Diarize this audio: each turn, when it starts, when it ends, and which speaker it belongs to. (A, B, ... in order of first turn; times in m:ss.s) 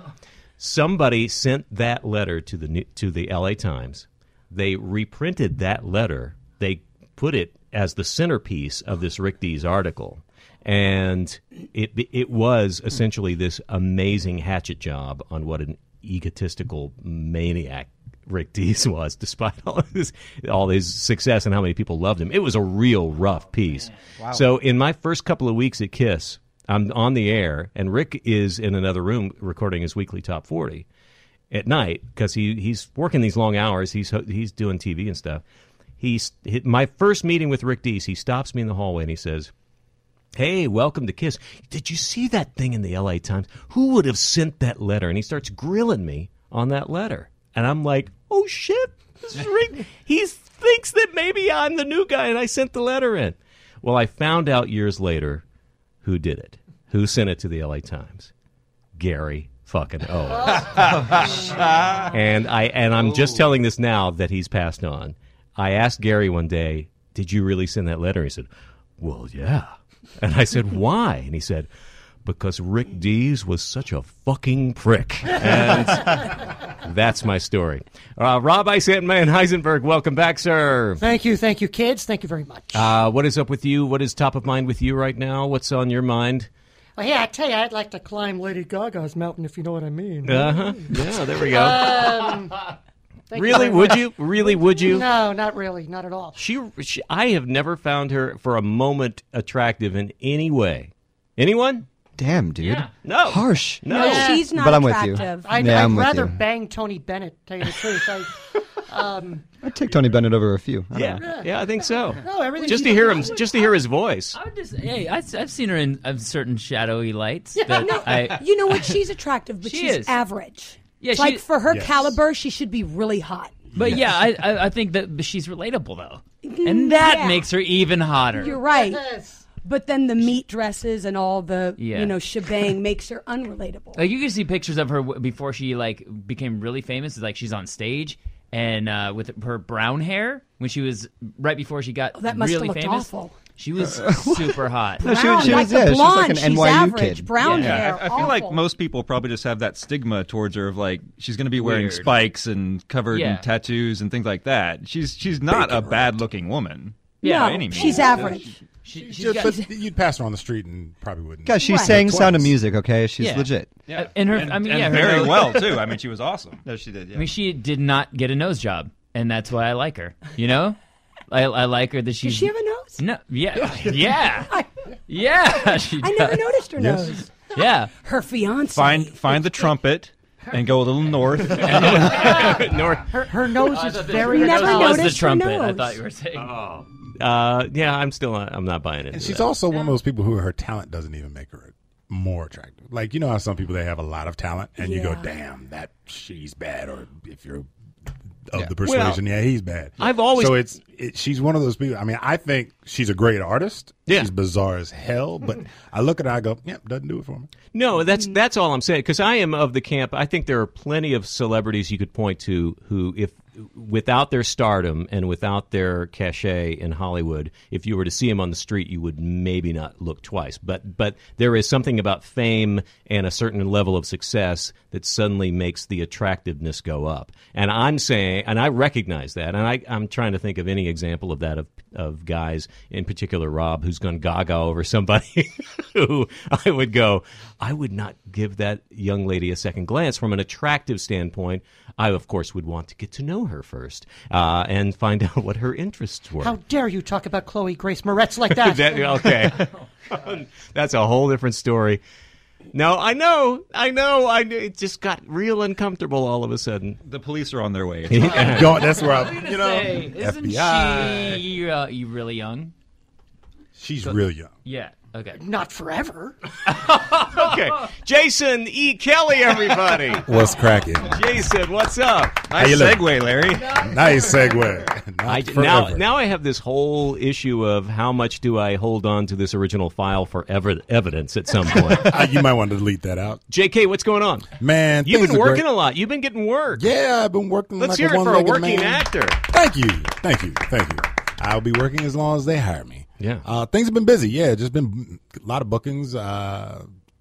0:00.6-0:30.8 A
0:24.2-0:24.4 B
0:31.5-0:35.4 A
0:36.0-0:39.5 A
0:40.4-0:55.4 A
0:56.0-0:58.3 A
0:59.0-1:01.4 A
1:02.0-1:08.5 A
1:09.0-1:11.7 A
1:12.2-1:21.0 A
1:21.0-1:22.9 C
1:22.7-1:26.5 A
1:27.0-1:32.7 C
1:30.2-1:32.3 A
1:33.3-1:36.4 C
1:33.3-1:35.1 A
1:36.4-1:41.8 A
1:42.2-1:46.4 B
1:42.6-1:42.9 D
1:43.0-1:44.4 A
1:43.9-1:44.5 C
1:43.9-1:45.5 E
1:45.2-1:49.4 C
1:49.6-1:51.2 B
1:50.9-1:54.4 A
1:51.2-1:53.7 C
1:54.3-1:59.0 D
1:57.6-1:58.1 C
1:57.7-2:03.7 E
1:59.6-2:00.2 D
2:01.0-2:01.5 D
2:01.7-2:02.1 F
2:03.7-2:04.1 F
2:03.7-2:08.5 D
2:06.4-2:07.5 E
2:08.3-2:09.4 C
2:08.4-2:09.1 E
2:09.6-2:14.0 E
2:11.8-2:12.2 D
2:13.9-2:25.7 D
2:22.1-2:23.4 E
2:23.9-2:27.4 B
2:25.0-2:28.6 E
2:27.4-2:27.9 D
2:27.5-2:38.5 G
2:31.5-2:32.2 D
2:33.1-2:33.5 D
2:35.5-2:36.1 F
2:37.2-2:38.3 D
2:37.2-2:38.5 E
2:38.8-2:39.6 D
2:38.9-2:42.5 F
2:39.3-2:39.6 E
2:41.4-2:43.8 B
2:41.6-2:42.0 E
2:43.2-2:45.9 D
2:43.9-2:46.6 G
2:46.6-2:47.3 B
2:47.1-2:50.8 D
2:51.3-2:54.5 D
2:52.2-2:53.0 E
2:55.1-2:56.4 D
2:55.7-2:59.5 E
2:56.8-2:57.2 F
2:57.5-2:57.9 D
2:58.7-3:02.4 G
3:01.6-3:03.2 A
3:02.2-3:05.2 C
3:03.6-3:06.6 D
3:04.1-3:06.0 E
3:06.3-3:09.5 A
3:09.1-3:17.7 F
3:14.8-3:15.3 E
3:18.5-3:27.5 F
3:18.8-3:19.2 A
3:20.0-3:20.6 A
3:27.7-4:06.6 A
4:06.4-4:09.5 C
4:08.5-4:12.0 A
4:12.7-4:17.0 A
4:17.0-4:18.8 G
4:18.1-4:18.8 A
4:18.2-4:22.7 D
4:18.4-4:21.4 F
4:23.8-4:24.5 F
4:24.0-4:25.4 D
4:25.3-4:26.4 C
4:27.0-4:30.3 A
4:30.2-4:31.2 F
4:31.0-4:32.5 A
4:32.5-4:34.0 G
4:32.5-4:36.0 F
4:35.2-4:42.2 A
4:41.8-4:43.4 F
4:43.5-4:44.5 A
4:44.6-4:45.6 F
4:45.0-4:46.8 A
4:46.8-4:56.8 F
4:47.8-4:49.4 A
4:53.2-4:53.4 A